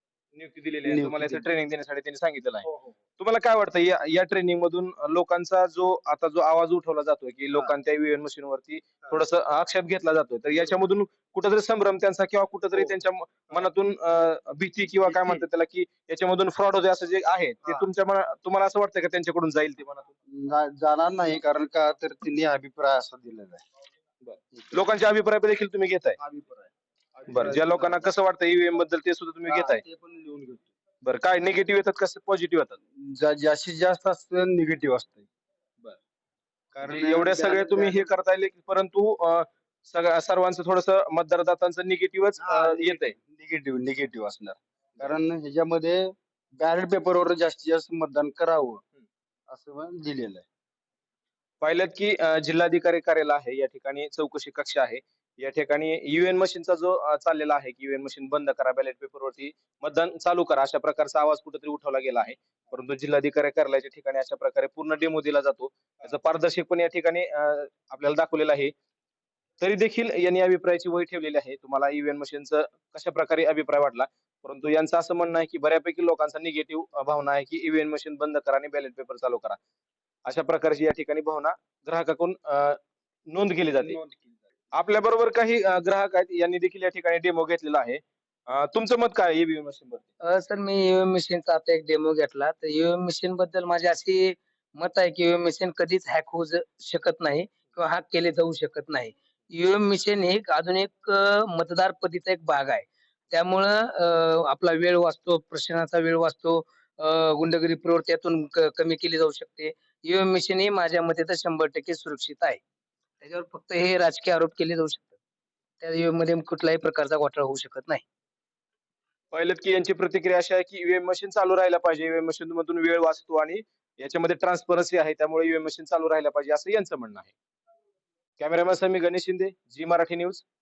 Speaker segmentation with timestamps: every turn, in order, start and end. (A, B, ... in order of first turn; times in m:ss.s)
0:00.3-0:02.6 A
0:00.8-0:01.5 B
0:02.6-0:03.0 B
0:03.2-0:20.1 A
0:10.5-0:10.9 B
0:12.7-0:13.7 B
0:15.0-0:15.4 B
0:17.6-0:17.9 B
0:20.3-0:23.6 B
0:24.2-0:26.2 A
0:24.5-0:24.9 B
0:26.2-0:28.1 B
0:27.3-0:29.8 A
0:29.4-0:30.7 B
0:31.0-0:32.8 A
0:32.9-0:35.3 B
0:36.7-0:38.1 B
0:36.8-0:43.1 A
0:42.4-0:48.8 B
0:49.5-0:50.4 B
0:51.6-1:08.7 A
1:09.6-1:19.6 A
1:20.2-1:24.0 A
1:23.6-1:24.4 B
1:24.7-1:30.0 A
1:30.2-1:52.6 C
1:53.2-1:55.2 C
1:55.8-1:58.0 C
1:59.3-2:07.3 A
2:08.4-2:10.4 A